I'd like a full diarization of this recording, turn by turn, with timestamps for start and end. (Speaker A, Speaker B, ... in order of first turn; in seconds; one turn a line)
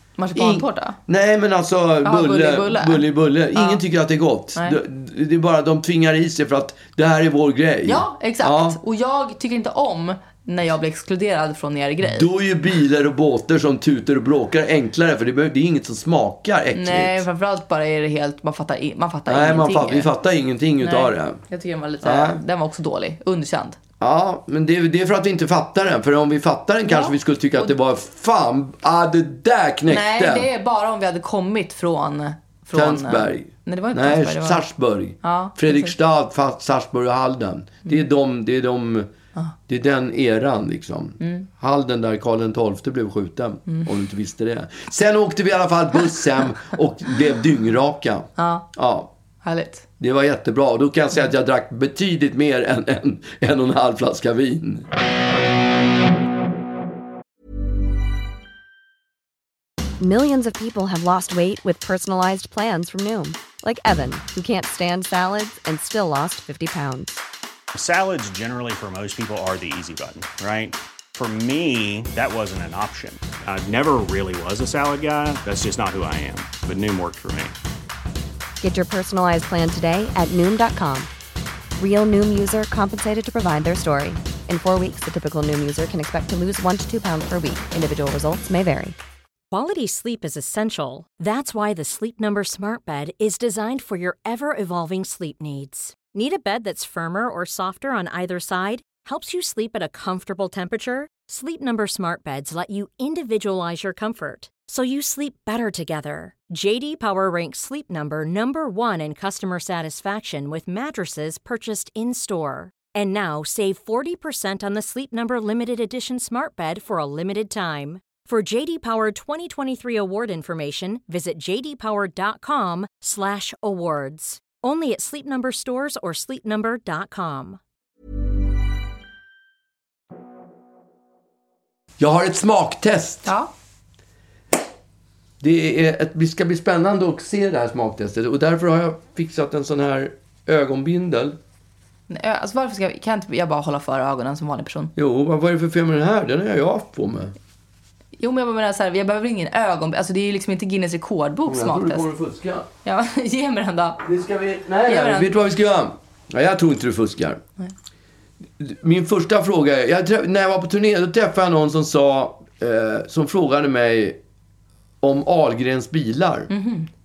Speaker A: 0.2-1.0
Speaker B: 0.3-8.8
Speaker A: 2.0-3.8
Speaker A: 7.8-12.3
Speaker B: 12.0-17.2
Speaker A: 16.7-20.1
Speaker B: 19.3-21.4
Speaker A: 20.8-23.8
Speaker B: 22.0-22.4
Speaker B: 24.0-30.5
Speaker A: 26.8-27.7
Speaker A: 29.9-34.7
Speaker B: 32.7-39.1
Speaker A: 35.2-35.9
Speaker B: 39.7-49.1
Speaker A: 41.2-41.5
Speaker A: 48.4-48.6
Speaker A: 49.4-49.8
Speaker B: 50.0-54.9
Speaker C: 60.0-67.2
Speaker D: 67.7-77.5
Speaker C: 78.6-81.1
Speaker C: 81.8-89.0
Speaker E: 89.5-127.6
Speaker B: 132.0-133.3
Speaker B: 135.4-141.4
Speaker A: 142.1-144.9
Speaker B: 144.9-147.3
Speaker A: 148.2-152.1
Speaker B: 151.4-152.7
Speaker A: 152.8-154.0
Speaker B: 154.0-157.4
Speaker A: 154.8-155.3
Speaker B: 158.6-164.2
Speaker B: 165.0-166.5
Speaker A: 166.5-166.9